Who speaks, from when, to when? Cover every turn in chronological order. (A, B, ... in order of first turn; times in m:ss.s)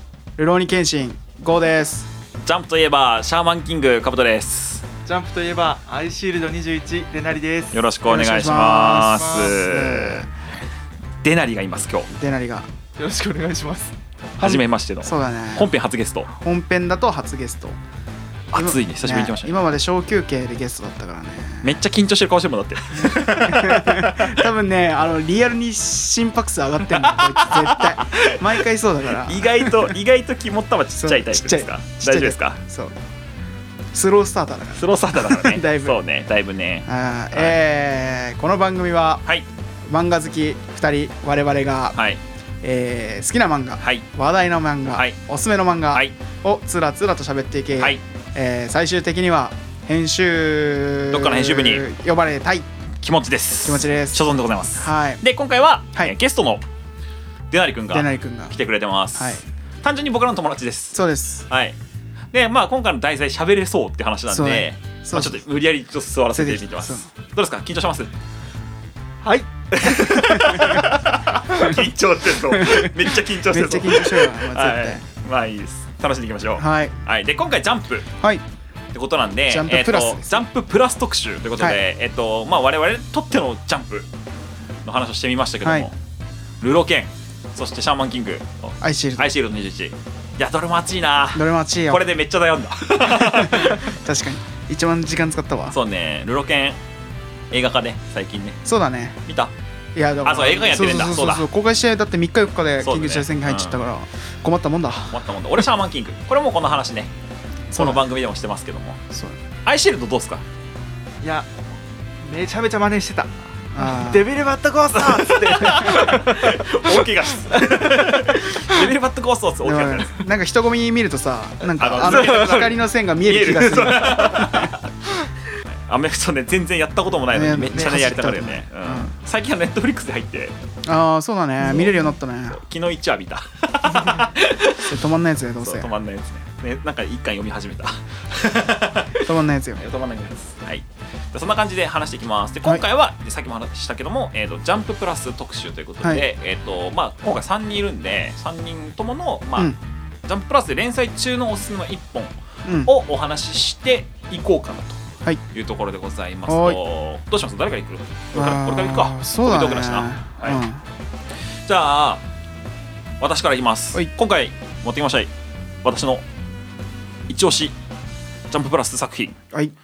0:00.4-0:02.1 A
0:02.4-0:04.9 B
0:05.0-0:07.8 C
0:07.7-0:10.3 B
0:08.1-0:10.3 A
0:09.2-0:09.7 C
0:11.2-0:12.1 B
0:12.1-0:12.7 A
0:13.0-0:14.0 C
0:14.4-0:15.7 A
0:14.4-0:16.3 B
0:16.3-0:17.8 A
0:18.5-0:19.7 B
0:18.6-0:21.8 A
0:21.6-0:24.4 B
0:23.0-0:29.9 A
0:26.8-0:32.6 B
0:30.9-0:33.0 A
0:33.9-0:36.0 A
0:34.7-0:37.6 B
0:36.9-0:39.2 A
0:39.9-0:42.0 A
0:42.0-0:42.2 B
0:42.6-0:52.7 A
0:43.8-0:44.1 B
0:51.1-0:51.9 B
0:53.0-0:56.6 B
0:53.6-0:55.2 A
0:57.5-1:01.8 B
0:57.9-0:58.6 A
0:59.1-0:59.4 A
1:00.9-1:01.5 A
1:02.3-1:08.1 B
1:04.3-1:05.4 A
1:06.3-1:07.1 A
1:09.2-1:10.8 C
1:09.7-1:18.1 B
1:12.5-1:15.0 A
1:16.6-1:17.0 A
1:18.9-1:24.1 B
1:19.5-1:20.4 A
1:24.8-1:25.9 B
1:25.6-1:25.9 A
1:26.6-1:34.0 B
1:28.8-1:29.3 A
1:31.4-1:32.0 A
1:33.1-1:35.8 A
1:35.7-1:36.8 B
1:37.5-1:38.6 B
1:38.6-1:39.2 A
1:39.3-1:39.5 B
1:40.0-1:45.2 A
1:40.2-1:41.5 B
1:42.8-1:43.9 B
1:45.1-1:47.1 B
1:47.7-1:48.0 A
1:47.7-1:49.0 B
1:49.1-1:49.4 A
1:49.6-1:50.4 B
1:51.2-1:51.5 C
1:52.2-1:58.8 C
1:53.7-1:54.3 A
1:55.0-2:00.3 B
1:55.7-1:56.0 A
1:59.6-2:04.7 A
2:01.6-2:04.9 B
2:02.0-2:02.7 C
2:05.5-2:10.6 B
2:07.3-2:09.1 A
2:07.7-2:08.0 C
2:10.9-2:12.6 A
2:11.6-2:14.9 B
2:13.9-2:14.3 C
2:14.8-2:15.9 A
2:15.6-2:29.7 B
2:19.3-2:19.8 A
2:26.0-2:26.3 A
2:30.3-2:35.0 B
2:32.7-2:32.9 A
2:35.5-2:40.6 B
2:36.5-2:36.8 A
2:38.3-2:40.8 A
2:41.7-2:42.2 B
2:43.2-2:45.3 B
2:45.8-2:46.2 B
2:47.3-2:47.7 B
2:48.5-2:49.4 B